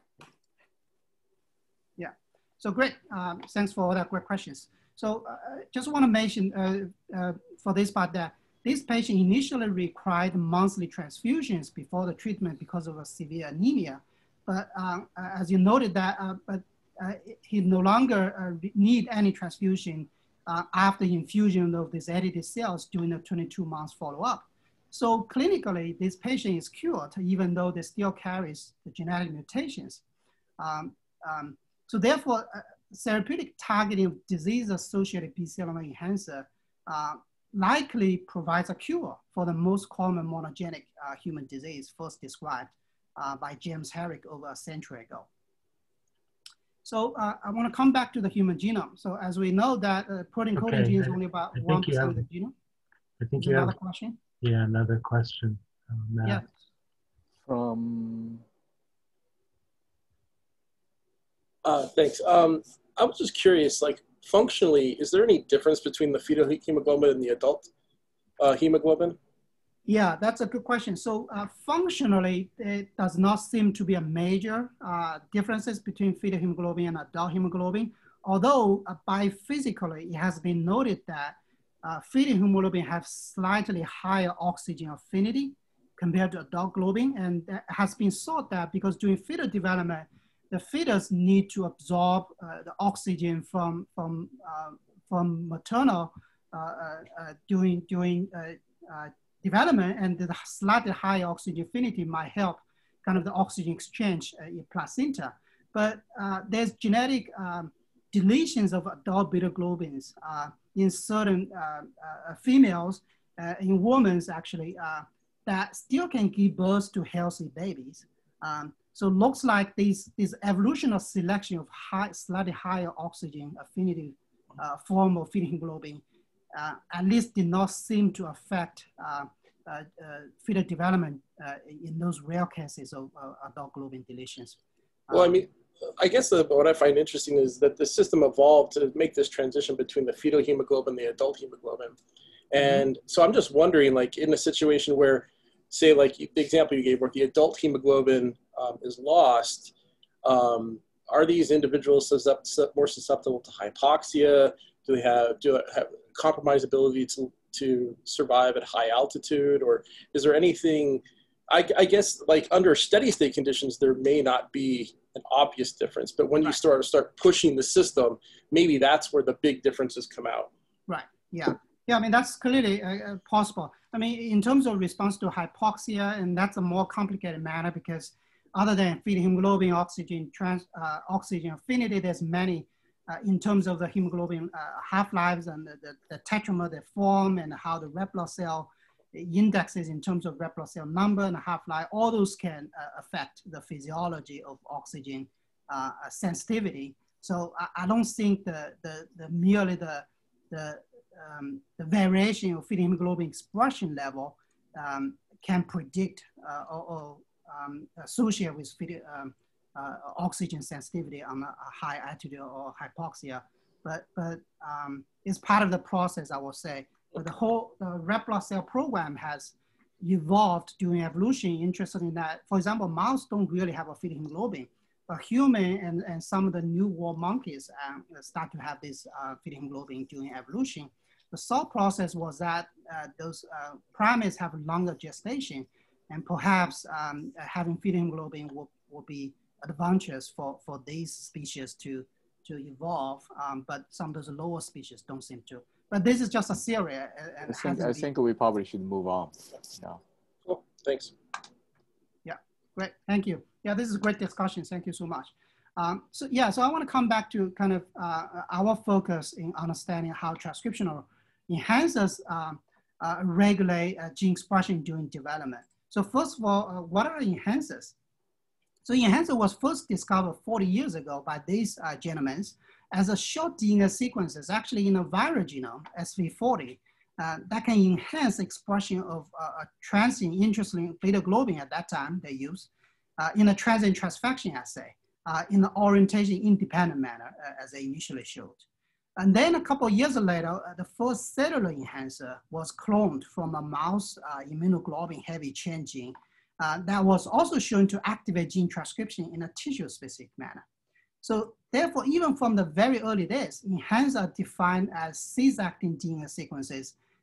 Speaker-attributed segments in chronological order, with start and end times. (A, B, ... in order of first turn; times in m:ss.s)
0:02.0-0:30.0 A
0:30.6-0:45.3 A
0:46.8-0:52.5 A
0:50.6-0:52.2 B
0:53.2-0:53.8 B
0:53.4-0:54.2 A
0:54.4-0:56.4 B
0:56.2-0:56.5 A
0:57.5-0:58.4 C
1:01.6-1:07.7 D
1:08.4-1:09.2 D
1:09.9-2:15.4 A
2:15.1-2:22.0 D
2:22.5-2:50.5 D
2:50.9-4:08.1 A
4:07.4-4:10.0 C
4:10.4-4:11.1 D
4:12.2-4:27.9 A
4:28.8-4:48.6 A
4:49.2-5:00.6 A
5:01.2-5:07.0 A